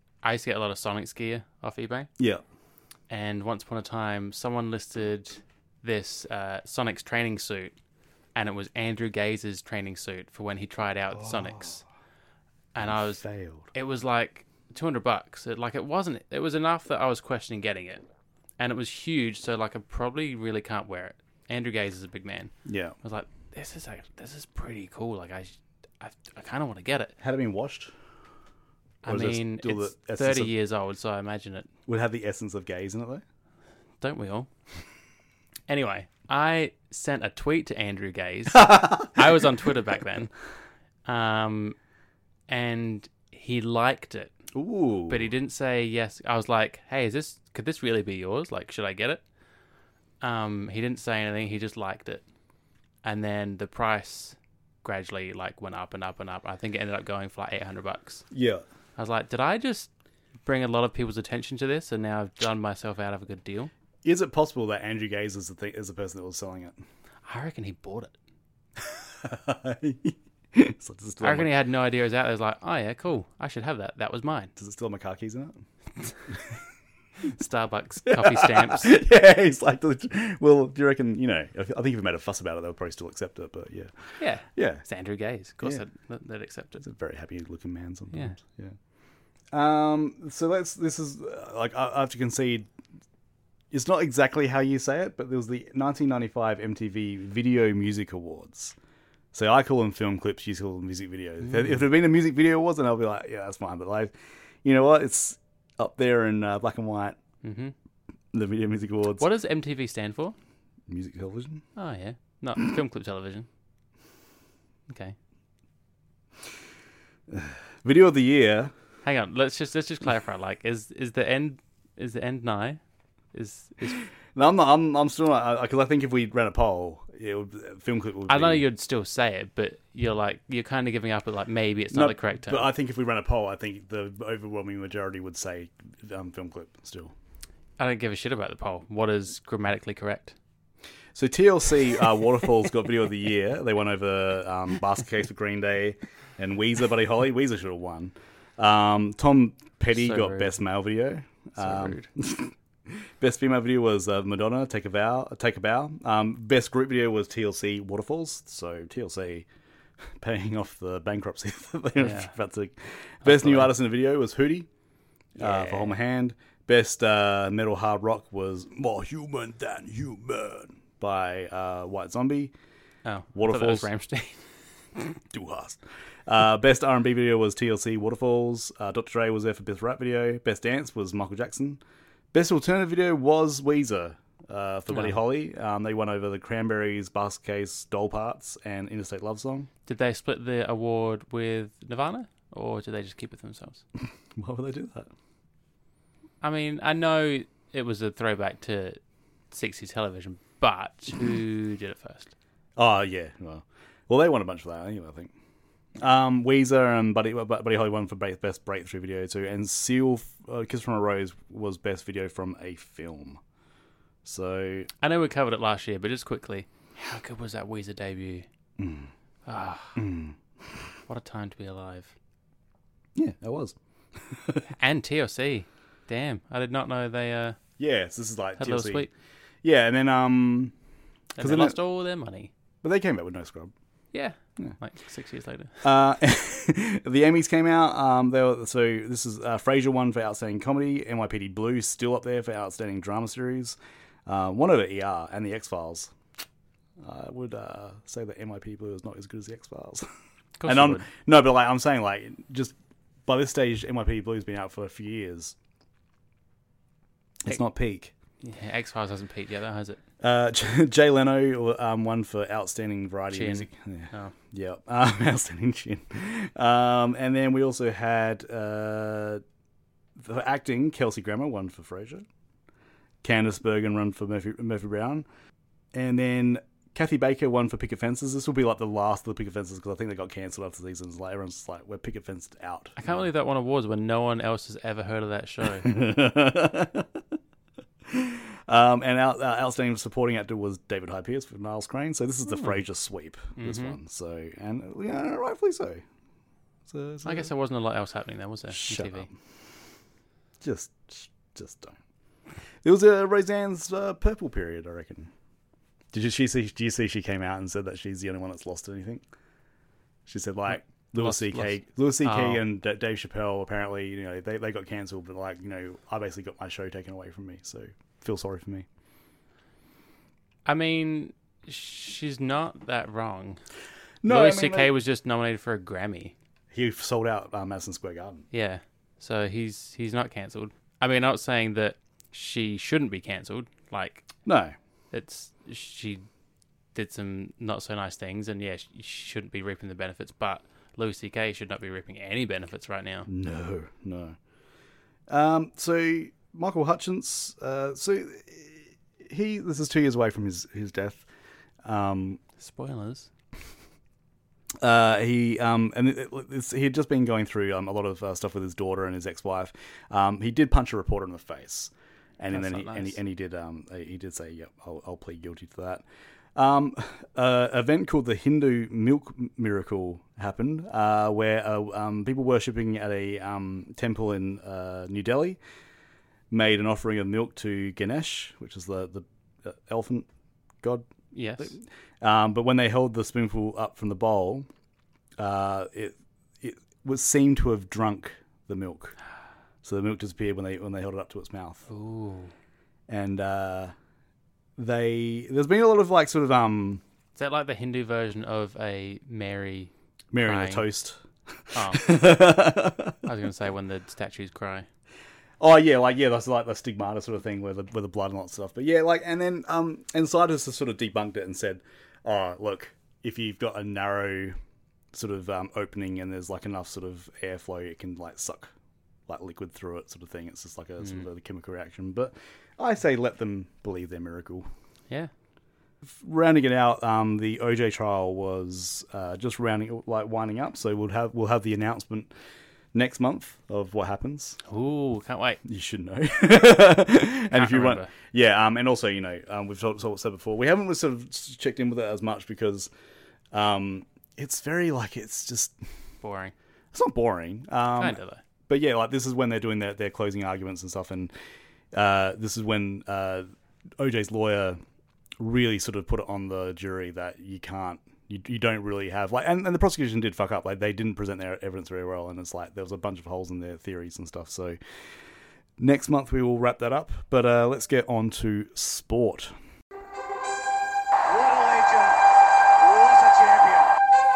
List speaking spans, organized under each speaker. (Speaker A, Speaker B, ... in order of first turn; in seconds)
Speaker A: 0.2-2.1, 3.1-7.8, 8.3-11.8, 12.7-13.2, 13.7-18.0, 18.6-22.5, 23.0-27.1, 29.0-31.7, 34.0-34.5, 35.7-40.3, 41.0-41.8, 42.5-44.3, 45.1-49.2, 50.2-52.2, 53.0-58.2, 59.0-59.9, 60.4-63.7, 67.2-68.1, 71.2-74.5, 77.2-78.9, 84.2-86.8, 88.1-88.4, 107.4-107.7, 109.2-110.3, 111.8-113.5, 114.9-115.2, 119.0-122.8, 123.3-124.0, 128.3-132.7, 137.8-140.3, 149.9-150.5, 151.6-152.1, 162.0-162.3, 163.2-163.7, 165.4-166.0, 173.0-174.4, 184.9-185.2, 189.8-193.8, 196.4-199.0, 199.5-202.3, 215.0-218.4, 219.4-220.0, 221.1-222.1, 224.7-227.6, 228.6-229.1, 231.3-232.5, 234.1-235.8, 250.6-251.1, 258.4-260.0, 263.3-264.3, 283.0-285.9, 292.5-292.7, 293.6-294.0, 297.2-299.3, 311.1-312.6, 320.6-323.6, 324.2-326.3, 328.5-334.3, 335.1-336.3, 336.9-343.3, 352.6-353.3, 362.5-363.2, 381.3-381.8, 391.9-392.5, 397.4-400.9, 401.7-402.1, 403.2-404.9, 434.7-435.6, 437.5-438.1, 446.2-446.5, 448.0-448.4
Speaker B: 2.2-2.4, 11.1-11.8, 12.8-13.7, 22.6-22.9, 27.2-27.9, 29.1-30.5, 31.9-33.2, 38.6-39.0, 44.5-45.3, 58.3-58.6, 64.0-66.8, 68.8-71.5, 74.6-75.6, 78.1-83.9, 84.5-84.8, 86.8-88.8, 89.5-92.7, 93.7-98.7, 99.3-107.2, 108.3-109.2, 110.9-111.6, 117.3-118.7, 124.3-128.6, 131.9-137.1, 141.1-159.4, 160.2-164.7, 165.4-172.5, 173.3-173.9, 175.3-181.8, 182.3-189.7, 194.3-195.1, 202.8-205.3, 206.0-213.4, 214.2-214.9, 218.8-219.1, 219.9-220.4, 223.1-224.6, 227.8-229.1, 229.6-230.7, 231.4-231.8, 232.8-233.7, 235.8-246.1, 247.0-250.1, 250.7-252.7, 253.3-255.5, 257.4-258.1, 260.2-269.4, 270.2-272.2, 273.2-275.2, 275.9-283.2, 285.8-287.1, 288.1-296.0, 296.9-297.5, 298.7-299.3, 300.6-302.0, 302.8-305.3, 306.1-309.2, 310.2-318.9, 324.2-324.9, 326.7-328.4, 334.4-334.8, 343.3-344.4, 345.3-351.2, 351.8-352.4, 354.8-366.0, 366.6-375.6, 376.5-380.3, 380.8-384.7, 385.4-389.1, 389.8-391.8, 393.1-393.9, 394.8-397.0, 400.3-401.2, 401.7-403.2, 405.6-414.6, 415.1-418.7, 419.3-424.7, 426.0-432.3, 432.9-434.6, 435.6-442.9, 443.5-445.7, 446.9-451.3, 451.9-453.5, 454.0-454.8, 455.4-464.8, 465.8-469.5
Speaker C: 471.2-472.2, 472.8-473.9